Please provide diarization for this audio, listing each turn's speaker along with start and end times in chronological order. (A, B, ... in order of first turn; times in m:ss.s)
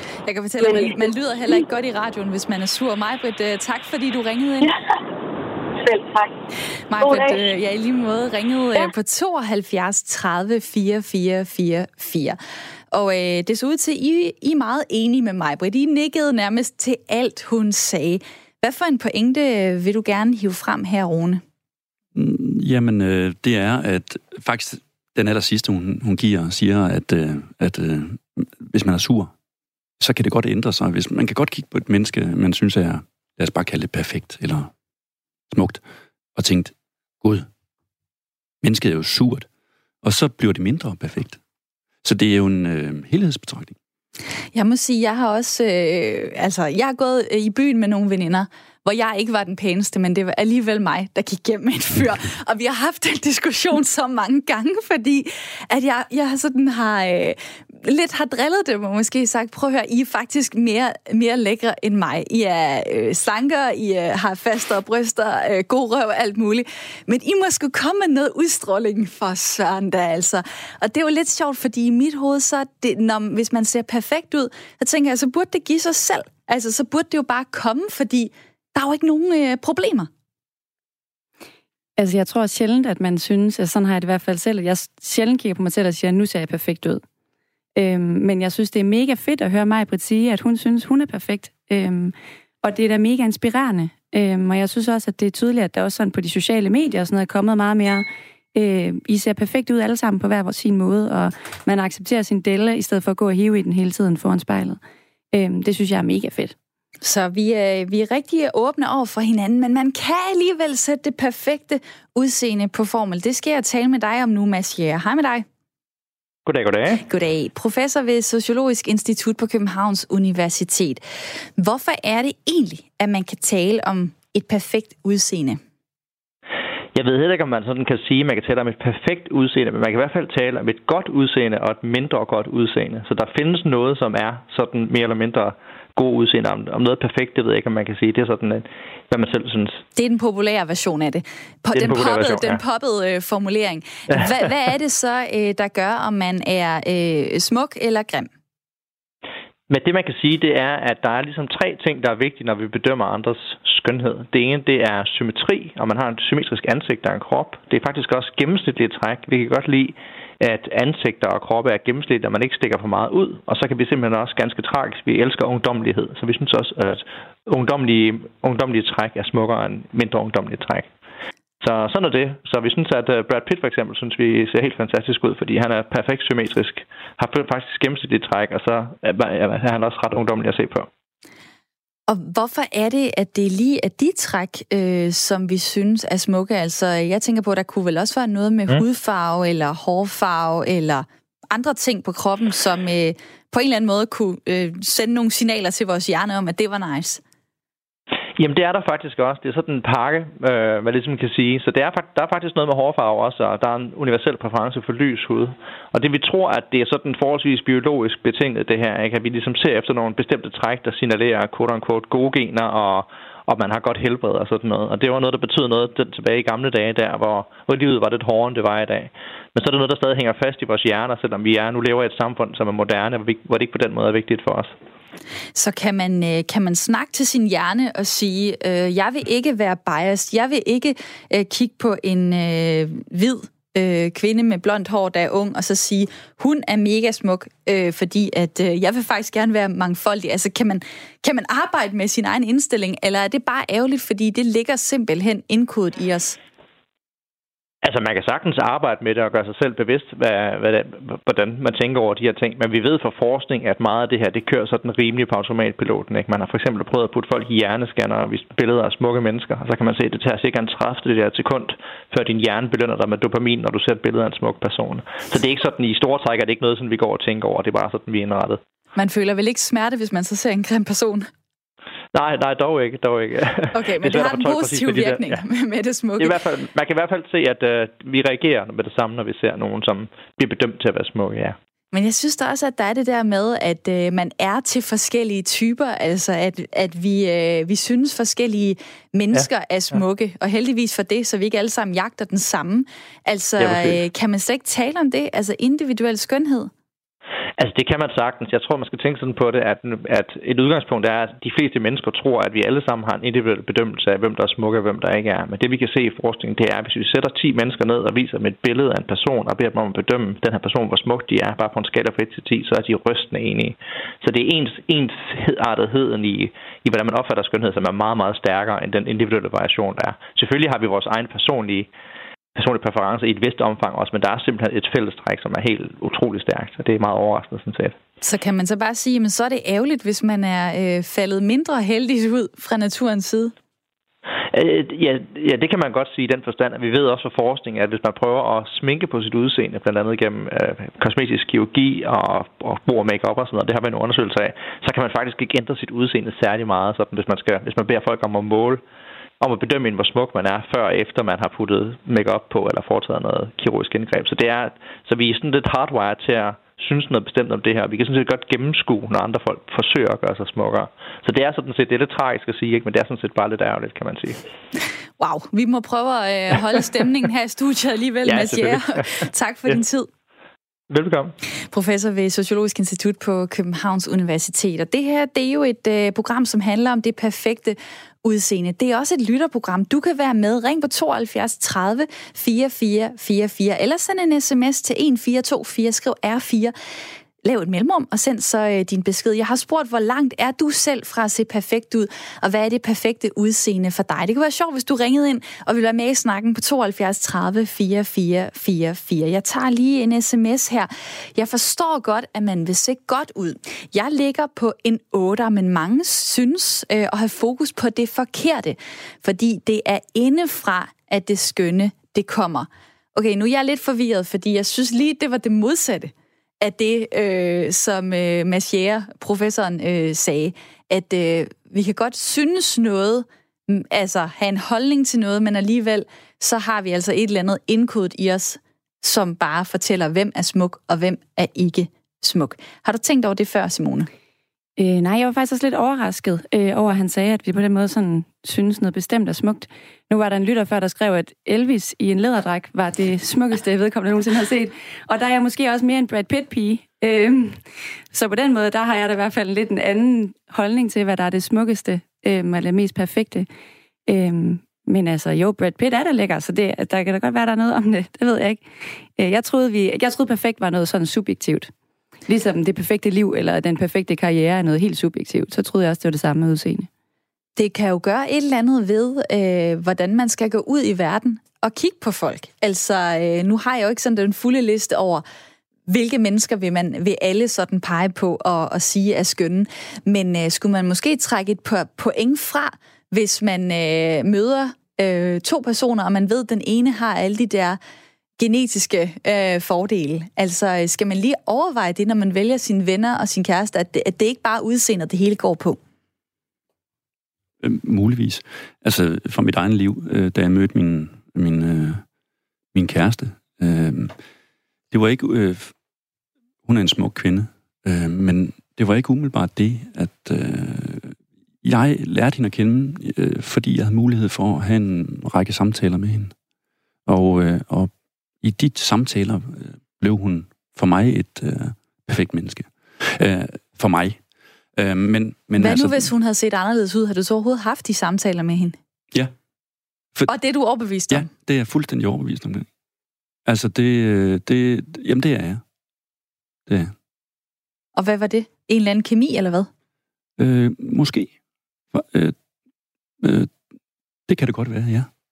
0:00.3-0:04.7 A
0:00.6-0:01.6 B
0:05.8-0:06.4 B
0:06.9-0:12.4 A
0:07.0-0:07.5 B
0:12.9-0:21.4 A
0:22.1-0:29.3 C
0:30.0-0:34.7 C
0:35.5-0:35.8 C
0:36.4-0:37.5 C
0:38.6-0:39.5 C
0:40.0-0:41.4 C
0:42.0-0:43.8 C
0:44.5-1:20.1 A
1:22.0-1:27.0 D
1:27.8-1:44.8 D
1:45.3-1:46.5 D
1:47.0-1:55.4 A
1:56.5-1:57.0 E
1:57.0-2:01.0 A
2:01.6-2:05.6 A
2:07.0-2:19.8 E
2:20.0-2:28.3 A
2:21.8-2:22.6 E
2:29.7-2:50.9 E
2:51.6-3:00.9 E
3:02.1-3:17.2 A
3:18.4-3:44.7 E
3:45.6-4:06.4 A
4:07.8-4:28.6 E
4:29.0-4:31.3 A
4:32.1-4:35.4 E
4:33.7-4:36.4 A
4:36.2-4:41.6 E
4:41.9-4:56.7 A
4:53.6-4:54.0 E
4:57.6-5:21.9 E
5:22.6-5:28.0 E
5:28.2-5:33.5 A
5:34.5-5:48.8 E
5:49.4-6:04.4 E
6:05.2-6:10.1 A
6:08.3-6:09.1 E
6:10.9-6:11.3 E
6:11.7-6:26.7 A
6:27.4-7:14.1 A
7:14.8-7:27.6 D
7:28.1-7:33.5 D
7:34.1-7:38.6 D
7:39.2-7:41.7 D
7:42.3-7:46.9 D
7:47.6-7:55.2 A
7:55.9-8:07.8 A
8:08.4-8:15.8 A
8:17.6-8:22.0 C
8:22.7-8:24.1 C
8:24.9-8:25.7 C
8:26.6-8:36.3 C
8:37.1-8:37.9 C
8:38.4-8:44.2 C
8:44.8-8:46.1 C
8:45.6-8:48.8 A
8:50.3-8:51.3 A
8:51.1-8:52.7 C
8:53.5-8:55.6 C
8:56.7-8:56.9 C
8:58.0-8:59.7 A
9:00.4-9:01.3 C
9:01.9-9:02.4 C
9:03.2-9:03.5 C
9:04.3-9:05.1 C